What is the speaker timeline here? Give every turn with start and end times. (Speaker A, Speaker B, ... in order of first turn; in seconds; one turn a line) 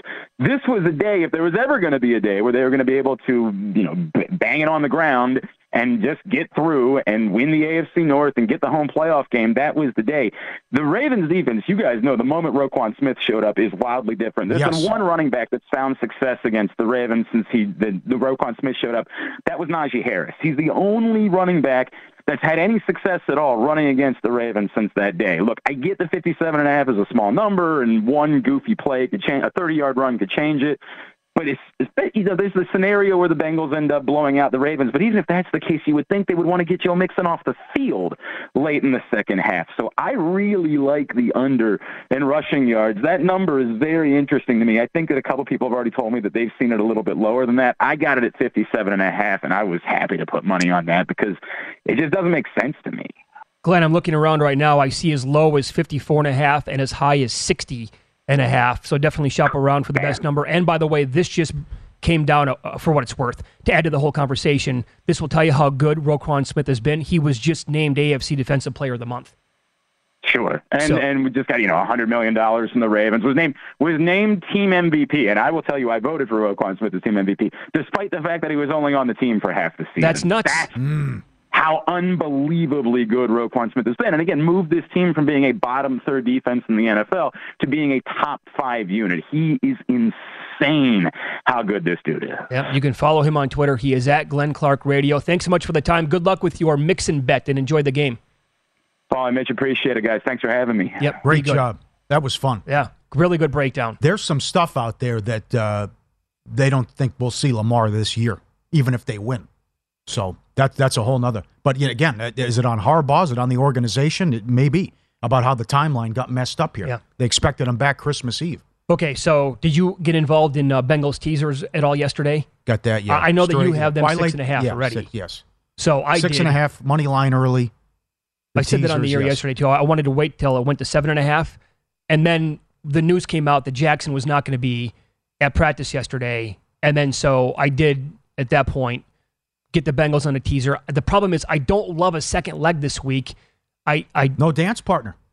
Speaker A: 0.4-30.8
Speaker B: 14.5-14.9
Speaker A: 31.4-53.1
Speaker C: 53.6-69.3
Speaker A: 70.2-80.7
Speaker C: 70.8-71.0
Speaker C: 80.0-80.7
Speaker B: 80.8-81.2
Speaker A: 81.5-92.5
Speaker C: 92.5-98.2
Speaker A: 99.1-101.2
Speaker C: 101.0-101.6
Speaker B: 101.2-102.6
Speaker C: 102.7-104.0
Speaker B: 104.0-105.9
Speaker B: 106.5-109.5
Speaker B: 110.1-118.6
Speaker C: 118.9-122.5
Speaker B: 122.7-125.4
Speaker C: 123.1-125.1
Speaker C: 125.8-126.6
Speaker B: 126.1-127.7
Speaker B: 128.5-129.4
Speaker C: 128.6-131.6
Speaker C: 132.1-139.0
Speaker C: 139.7-143.3
Speaker C: 143.8-144.4
Speaker B: 144.4-145.2